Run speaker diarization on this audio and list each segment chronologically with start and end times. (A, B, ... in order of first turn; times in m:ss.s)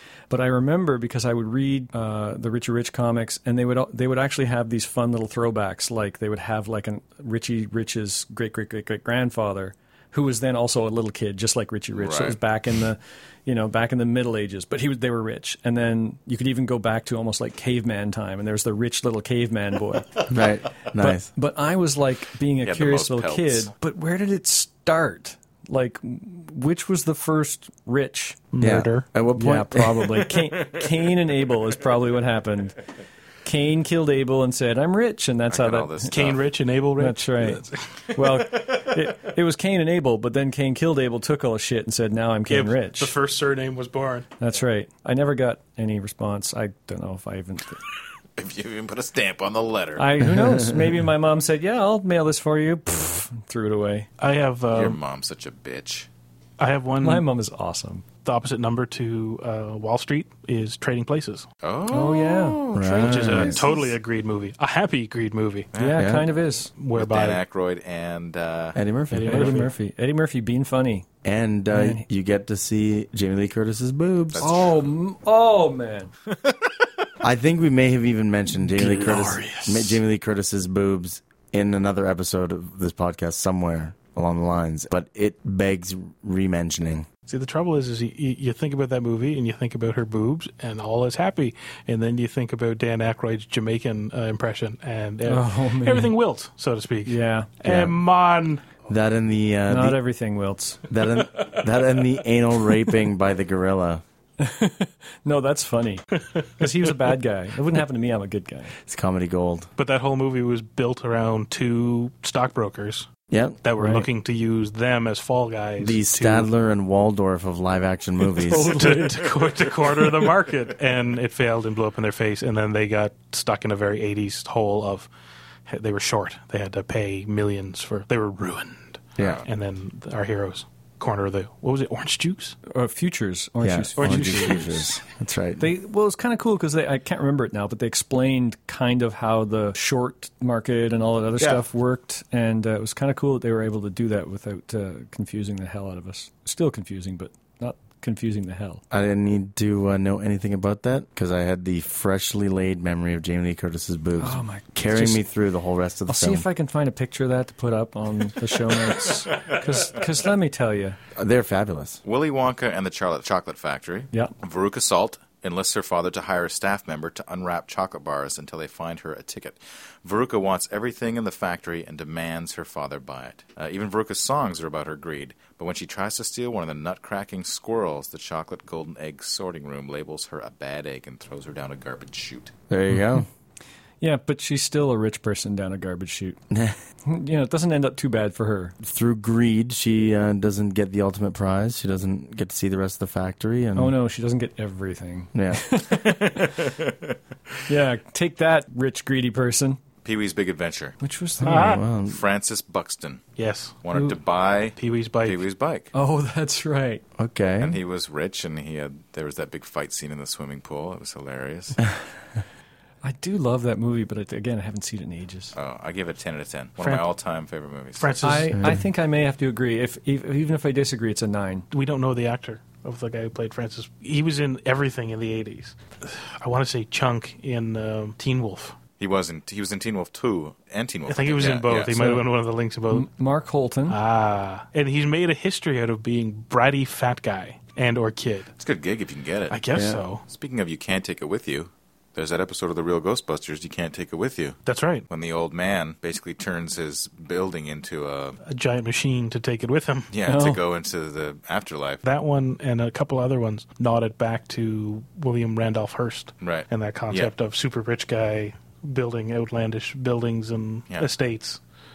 0:00.3-0:20.2 A
0:12.0-0:12.4 B
0:20.3-0:21.3 C
0:21.0-0:28.4 A
0:22.6-0:23.7 B
0:28.5-0:29.0 D
0:28.6-0:30.3 C
0:29.4-0:32.8 A
0:33.4-0:36.1 A
0:35.5-0:36.4 B
0:36.1-0:38.1 D
0:37.0-0:43.1 A
0:42.5-0:44.3 D
0:44.4-0:47.8 A
0:48.4-0:50.1 B
0:50.0-0:54.1 A
0:54.2-0:55.0 D
0:54.7-0:56.1 B
0:56.6-0:57.3 D
0:57.0-0:58.0 A
0:58.2-1:01.5 D
1:01.6-1:03.9 B
1:01.9-1:02.6 A
1:02.7-1:03.6 C
1:03.0-1:05.7 D
1:05.7-1:06.1 B
1:05.8-1:06.7 A
1:06.0-1:06.3 C
1:06.8-1:07.4 D
1:06.9-1:08.8 B
1:08.8-1:09.6 C
1:09.1-1:09.7 D
1:09.2-1:11.1 A
1:11.2-1:14.5 C
1:11.7-1:12.0 A
1:14.3-1:14.8 B
1:14.4-1:16.1 A
1:16.3-1:16.7 B
1:17.2-1:27.1 C
1:18.7-1:20.0 A
1:27.3-1:38.6 D
1:35.2-1:36.1 A
1:37.1-1:37.5 A
1:37.6-1:38.0 C
1:38.9-1:40.0 C
1:39.7-1:40.9 A
1:40.9-1:44.0 C
1:44.4-1:48.8 A
1:48.9-1:49.7 C
1:49.8-1:53.1 D
1:53.3-1:53.6 C
1:53.6-1:56.5 D
1:53.8-1:54.1 A
1:55.8-1:59.0 C
1:58.4-1:59.6 A
1:58.6-2:05.1 D
2:05.7-2:12.6 D
2:09.2-2:09.5 B
2:12.7-2:15.0 A
2:13.6-2:15.7 C
2:14.0-2:14.8 D
2:15.6-2:28.8 A
2:28.9-2:36.5 C
2:34.2-2:35.2 A
2:36.1-2:41.0 A
2:41.2-2:42.0 C
2:42.0-3:02.5 B
3:02.7-3:03.3 C
3:04.0-3:06.4 A
3:06.5-3:06.8 C
3:07.0-3:08.8 A
3:08.8-3:14.0 C
3:13.8-3:16.7 A
3:15.3-3:15.6 C
3:16.2-3:17.2 B
3:17.7-3:19.8 A
3:20.0-3:21.0 B
3:21.0-3:21.8 A
3:21.4-3:22.2 C
3:21.4-3:21.8 D
3:22.0-3:23.3 B
3:23.4-3:23.8 D
3:23.8-3:25.9 B
3:24.8-3:25.4 D
3:25.9-3:27.0 A
3:27.2-3:27.8 C
3:27.6-3:31.8 B
3:33.0-3:35.5 A
3:35.5-3:38.2 B
3:36.8-3:37.1 D
3:38.0-3:38.7 D
3:38.2-3:41.7 A
3:38.5-3:38.8 C
3:41.7-3:48.8 D
3:49.0-3:52.0 B
3:51.1-3:53.1 D
3:51.9-3:52.3 A
3:52.9-3:54.0 A
3:53.9-3:58.5 D
3:58.6-3:59.6 B
3:59.5-4:00.2 D
3:59.7-4:00.0 C
4:00.2-4:08.4 B
4:04.7-4:05.1 D
4:08.4-4:10.1 D
4:10.1-4:12.0 B
4:10.3-4:10.6 A
4:12.0-4:21.6 D
4:16.4-4:17.3 B